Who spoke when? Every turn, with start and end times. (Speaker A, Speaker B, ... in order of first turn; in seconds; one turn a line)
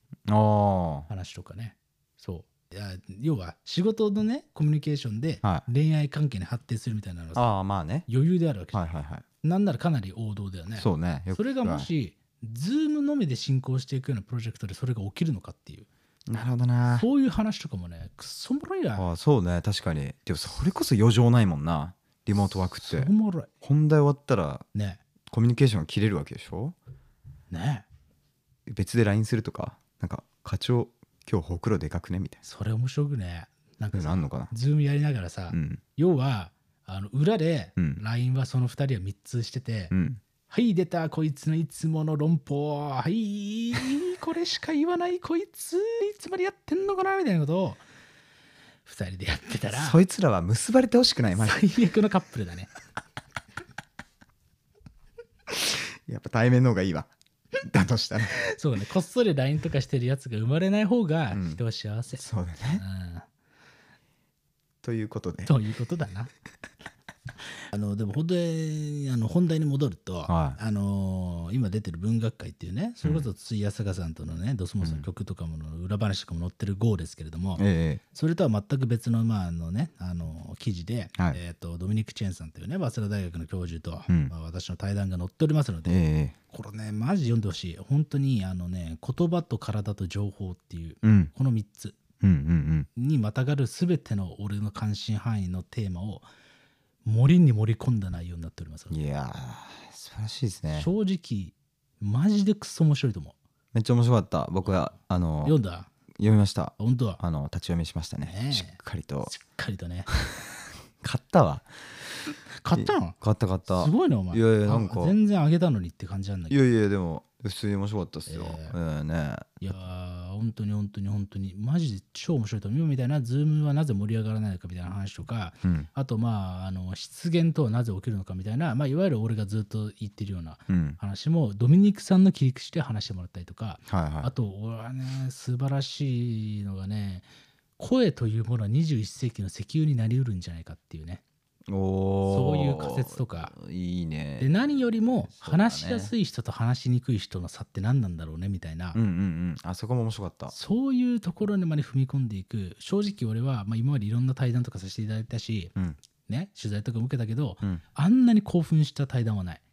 Speaker A: 0.3-1.1
Speaker B: 1.1-7.5
Speaker A: 7.3-8.1
Speaker B: 8.1-8.8
Speaker A: 8.7-9.2
Speaker B: 9.4-15.9
Speaker A: 10.8-11.9
Speaker A: 16.3-17.1
Speaker B: 16.9-19.1
Speaker A: 18.9-23.1
Speaker B: 22.8-23.5
Speaker A: 23.6-24.6
Speaker B: 24.7-25.0
Speaker A: 25.3-26.7
Speaker B: 27.5-27.9
Speaker A: 28.7-32.4
Speaker B: 32.4-39.9
Speaker A: 33.9-34.5
Speaker A: 35.5-35.8
Speaker A: 39.9-40.2
Speaker B: 40.5-47.8
Speaker B: 48.8-50.0
Speaker A: 49.7-51.6
Speaker B: 51.3-52.7
Speaker A: 55.6-57.1
Speaker A: 57.6-58.3
Speaker B: 58.2-63.2
Speaker A: 61.3-61.6
Speaker A: 62.2-62.8
Speaker A: 64.8-65.5
Speaker B: 65.5-66.3
Speaker B: 67.7-92.0
Speaker A: 70.3-70.6
Speaker A: 74.8-75.1
Speaker A: 77.6-78.0
Speaker A: 85.8-86.3
Speaker A: 91.0-91.3
Speaker A: 92.2-92.9
Speaker B: 93.0-96.2
Speaker B: 97.0-99.0
Speaker A: 98.9-100.9
Speaker B: 100.7-103.3
Speaker A: 103.7-105.5
Speaker B: 104.6-104.9
Speaker B: 105.4-105.9
Speaker A: 106.2-109.3
Speaker B: 106.8-107.2
Speaker B: 108.2-110.1
Speaker A: 110.3-112.0
Speaker B: 112.5-113.2
Speaker A: 112.8-115.1
Speaker B: 113.7-116.6
Speaker A: 116.5-119.5
Speaker B: 118.3-118.8
Speaker B: 119.6-137.3
Speaker A: 125.6-125.9
Speaker A: 130.7-131.0
Speaker A: 133.9-134.3
Speaker B: 137.8-141.2
Speaker A: 141.7-144.7
Speaker B: 142.3-143.5
Speaker B: 144.4-149.0
Speaker A: 145.4-146.1
Speaker A: 148.9-150.5
Speaker B: 150.5-155.7
Speaker B: 156.2-159.6